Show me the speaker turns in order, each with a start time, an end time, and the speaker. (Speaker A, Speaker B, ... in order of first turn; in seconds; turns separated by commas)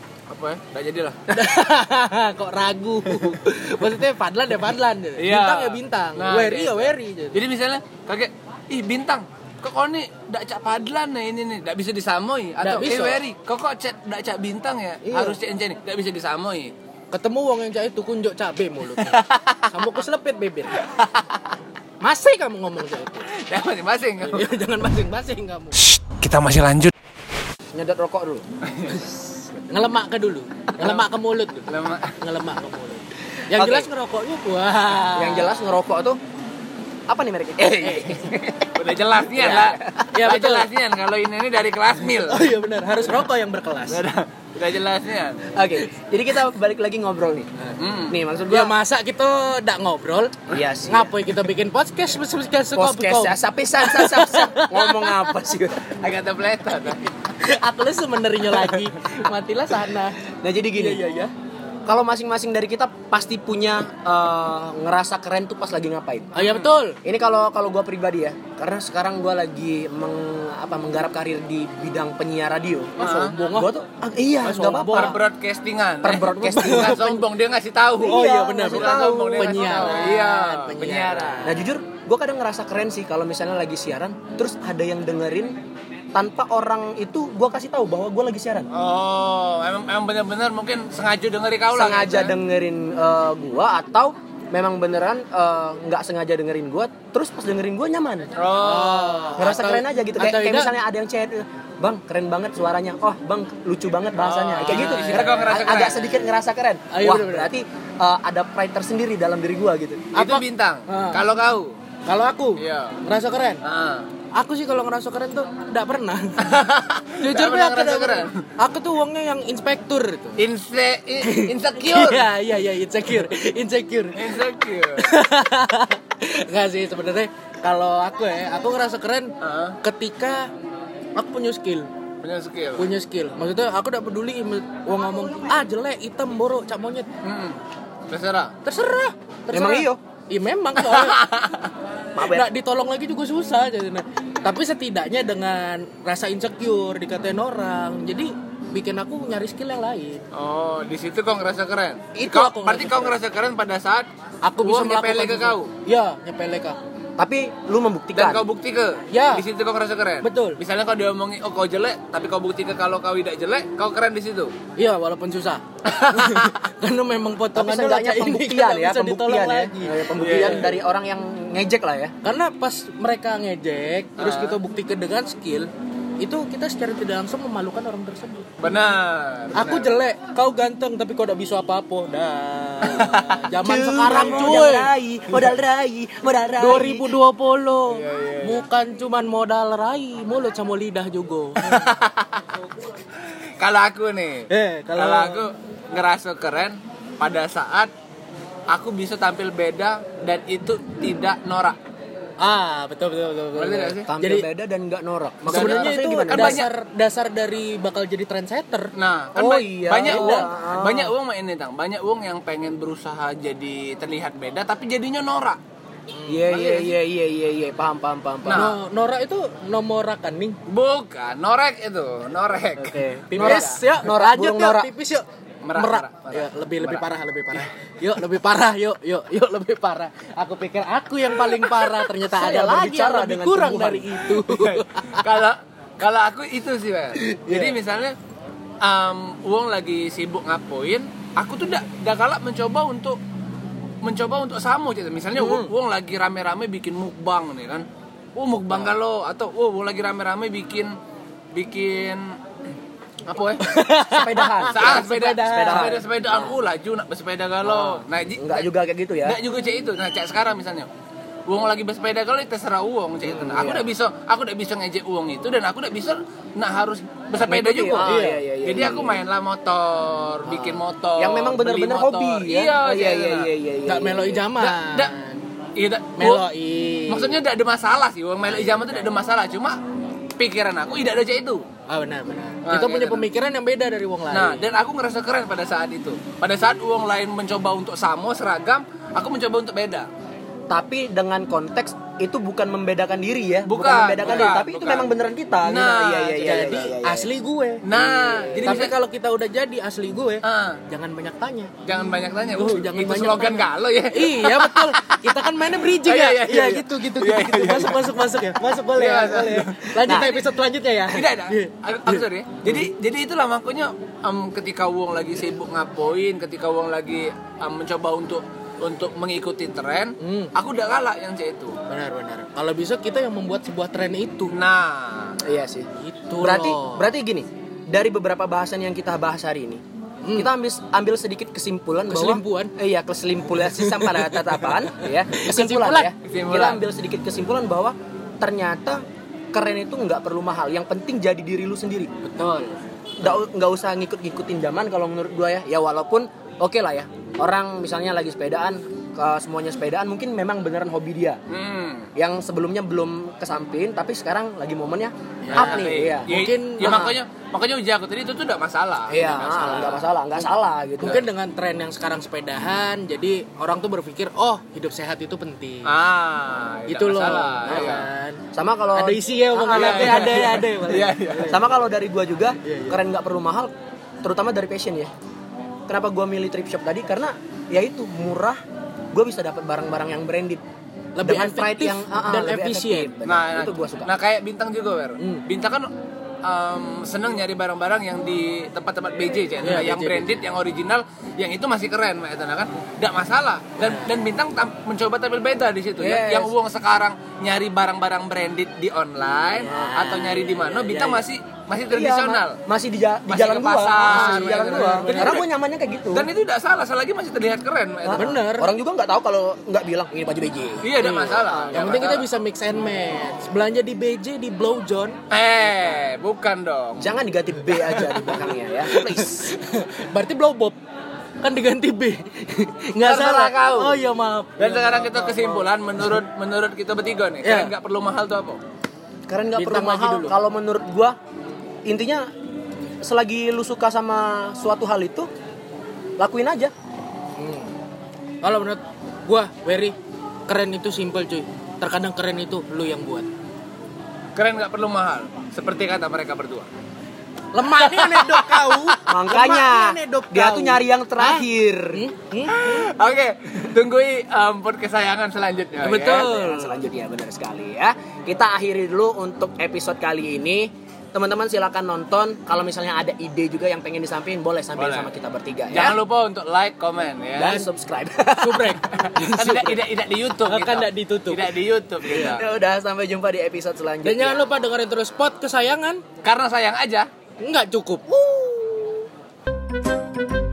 Speaker A: 0.3-1.2, Speaker B: 1.3-7.4, Speaker A: 5.2-16.7, Speaker B: 12.6-13.2, Speaker B: 15.0-15.4, Speaker B: 17.1-20.8, Speaker A: 19.0-19.9, Speaker A: 20.8-21.4, Speaker B: 22.0-23.3, Speaker A: 23.3-24.5, Speaker B: 24.2-25.9, Speaker A: 26.0-26.9, Speaker C: 27.7-28.4, Speaker A: 28.6-29.0, Speaker B: 29.7-35.7, Speaker A: 31.7-32.1, Speaker C: 33.5-33.9, Speaker C: 35.1-36.2, Speaker C: 37.1-38.7, Speaker B: 37.8-38.1, Speaker A: 38.7-42.4, Speaker C: 39.3-40.1, Speaker B: 40.1-40.7, Speaker B: 42.2-44.0, Speaker A: 43.9-45.5, Speaker C: 45.5-47.5, Speaker A: 47.8-48.2, Speaker C: 48.1-48.7, Speaker B: 48.5-55.3, Speaker C: 50.5-51.1, Speaker C: 52.7-56.0, Speaker A: 56.0-57.1, Speaker B: 57.4-60.2, Speaker C: 60.3-61.0, Speaker B: 60.7-61.3, Speaker C: 61.9-66.3, Speaker B: 66.3-67.0, Speaker A: 66.4-66.7, Speaker C: 67.0-75.2, Speaker A: 73.0-73.3, Speaker B: 73.0-73.7, Speaker B: 74.4-75.2, Speaker A: 74.9-81.5, Speaker C: 76.0-77.1, Speaker B: 76.3-77.2, Speaker C: 78.0-80.2, Speaker B: 78.0-81.7, Speaker C: 81.4-85.5, Speaker C: 86.1-88.7, Speaker A: 88.7-92.4, Speaker C: 91.7-98.3, Speaker A: 98.3-99.4, Speaker B: 98.6-100.7, Speaker C: 99.4-110.1, Speaker A: 104.2-106.2, Speaker B: 104.5-105.8, Speaker B: 106.9-107.5, Speaker B: 110.1-111.2, Speaker A: 110.1-111.7, Speaker B: 112.0-113.6, Speaker A: 112.6-113.0, Speaker A: 113.6-114.1, Speaker B: 114.3-120.4, Speaker A: 116.4-118.4, Speaker A: 120.4-122.3, Speaker B: 121.2-124.4, Speaker A: 124.1-125.1, Speaker B: 125.0-130.5, Speaker A: 129.4-129.8, Speaker B: 131.2-131.9, Speaker A: 132.2-132.9, Speaker B: 132.8-137.1, Speaker A: 137.2-138.5, Speaker B: 138.6-141.3, Speaker C: 139.5-140.0, Speaker A: 140.8-141.7, Speaker C: 142.1-142.5, Speaker B: 142.2-150.2, Speaker A: 150.3-154.1, Speaker B: 152.1-153.2, Speaker B: 154.4-156.8, Speaker A: 154.6-155.7, Speaker C: 157.2-158.4, Speaker A: 158.1-164.5, Speaker B: 159.1-159.4, Speaker B: 160.2-160.6, Speaker B: 164.8-170.7, Speaker A: 166.0-166.6, Speaker C: 167.5-172.1, Speaker A: 170.2-170.7, Speaker B: 172.2-175.7, Speaker A: 174.2-174.6, Speaker B: 176.2-178.5, Speaker A: 178.6-179.9, Speaker B: 179.5-184.9, Speaker A: 182.8-183.4, Speaker C: 183.6-187.2, Speaker A: 184.2-184.5, Speaker B: 186.6-191.9, Speaker A: 187.9-188.6, Speaker A: 191.6-192.6, Speaker A: 193.6-197.9, Speaker B: 194.5-195.4, Speaker A: 198.7-201.8, Speaker B: 202.4-204.4, Speaker A: 203.6-204.1, Speaker C: 204.1-206.6, Speaker A: 205.5-206.7, Speaker B: 205.5-208.9, Speaker A: 208.9-215.6, Speaker C: 209.3-211.1, Speaker B: 210.1-210.5, Speaker B: 216.2-216.4, Speaker C: 216.3-218.7, Speaker A: 216.5-216.9, Speaker A: 218.5-218.7, Speaker B: 218.5-220.6, Speaker A: 220.7-223.7, Speaker C: 222.8-224.9, Speaker B: 223.3-235.2, Speaker A: 225.6-227.0, Speaker A: 231.6-232.1, Speaker C: 232.3-234.3, Speaker A: 234.3-238.2, Speaker B: 237.2-237.7, Speaker A: 238.8-243.2, Speaker A: 244.0-250.9, Speaker C: 245.3-245.7, Speaker A: 251.5-252.3, Speaker A: 253.2-253.7, Speaker B: 253.6-256.0, Speaker C: 254.1-256.5, Speaker A: 254.7-258.7, Speaker C: 257.6-259.4, Speaker A: 259.2-260.9, Speaker A: 261.5-273.5, Speaker C: 263.2-263.9, Speaker C: 267.4-269.2, Speaker B: 268.0-268.4, Speaker C: 270.5-274.4, Speaker B: 273.9-275.4, Speaker A: 274.5-275.1, Speaker A: 275.8-276.5, Speaker B: 276.1-277.4, Speaker A: 277.1-279.8, Speaker C: 278.5-279.0, Speaker A: 280.4-281.6, Speaker B: 281.9-284.7, Speaker A: 282.6-283.2, Speaker A: 284.3-290.1, Speaker C: 290.7-297.3, Speaker A: 293.6-295.1, Speaker A: 295.6-296.8, Speaker B: 296.5-297.8, Speaker A: 297.8-298.9, Speaker C: 297.9-298.8, Speaker B: 298.6-301.7, Speaker A: 300.4-300.8, Speaker A: 301.8-308.1, Speaker B: 302.5-312.9, Speaker A: 308.9-310.2, Speaker C: 310.1-310.4, Speaker A: 311.1-321.8, Speaker B: 320.2-320.5, Speaker B: 321.9-324.5, Speaker A: 324.5-325.4, Speaker C: 325.4-329.8, Speaker B: 326.0-327.1, Speaker B: 330.2-330.5, Speaker C: 330.4-339.0, Speaker B: 332.1-332.7, Speaker B: 333.8-336.1, Speaker A: 336.2-336.8, Speaker C: 339.5-342.1, Speaker B: 342.2-342.8, Speaker C: 343.2-351.4, Speaker A: 351.5-352.1, Speaker C: 352.1-356.3, Speaker B: 355.4-357.1, Speaker A: 355.5-360.0, Speaker C: 356.8-357.1, Speaker C: 359.1-361.2, Speaker B: 359.5-360.0, Speaker B: 361.0-365.9, Speaker A: 365.9-368.1, Speaker B: 366.9-368.4, Speaker C: 367.7-368.0, Speaker C: 368.5-370.6, Speaker B: 368.9-371.6, Speaker A: 369.7-371.6, Speaker C: 371.5-373.7, Speaker B: 372.6-373.0, Speaker C: 374.2-375.1, Speaker C: 375.9-378.6, Speaker C: 379.1-380.6, Speaker B: 381.1-383.1, Speaker C: 381.2-384.1, Speaker A: 383.2-385.9, Speaker B: 385.2-385.4, Speaker A: 386.4-402.6, Speaker B: 389.6-390.3, Speaker B: 393.8-394.1, Speaker C: 396.0-396.5, Speaker B: 399.6-401.2, Speaker C: 401.9-406.3, Speaker A: 403.3-405.5, Speaker B: 404.1-405.4, Speaker A: 406.1-408.4, Speaker C: 408.0-412.1, Speaker B: 408.1-408.7, Speaker A: 410.8-412.2, Speaker B: 411.7-415.2, Speaker A: 415.3-417.1, Speaker C: 417.0-419.5, Speaker B: 417.8-420.8, Speaker B: 421.4-425.6, Speaker A: 423.0-424.0, Speaker A: 424.6-428.6, Speaker B: 427.4-427.7, Speaker C: 429.3-431.1, Speaker B: 429.6-430.4, Speaker C: 431.9-432.2, Speaker C: 433.0-435.3, Speaker C: 436.2-436.7, Speaker B: 437.4-437.7, Speaker B: 438.4-439.9, Speaker B: 440.5-443.3, Speaker A: 444.4-446.7, Speaker B: 447.5-452.9, Speaker A: 447.8-448.9, Speaker C: 449.1-452.0, Speaker A: 452.5-456.3, Speaker B: 455.8-456.8, Speaker C: 456.0-466.0, Speaker A: 464.8-465.1, Speaker A: 465.7-467.6, Speaker C: 467.4-468.8, Speaker B: 467.4-467.7, Speaker B: 468.4-469.8, Speaker A: 468.9-472.4, Speaker B: 470.4-471.5, Speaker B: 472.1-472.4, Speaker C: 472.1-474.5, Speaker B: 474.0-476.0, Speaker A: 476.2-477.1, Speaker B: 477.4-478.1, Speaker C: 478.1-478.9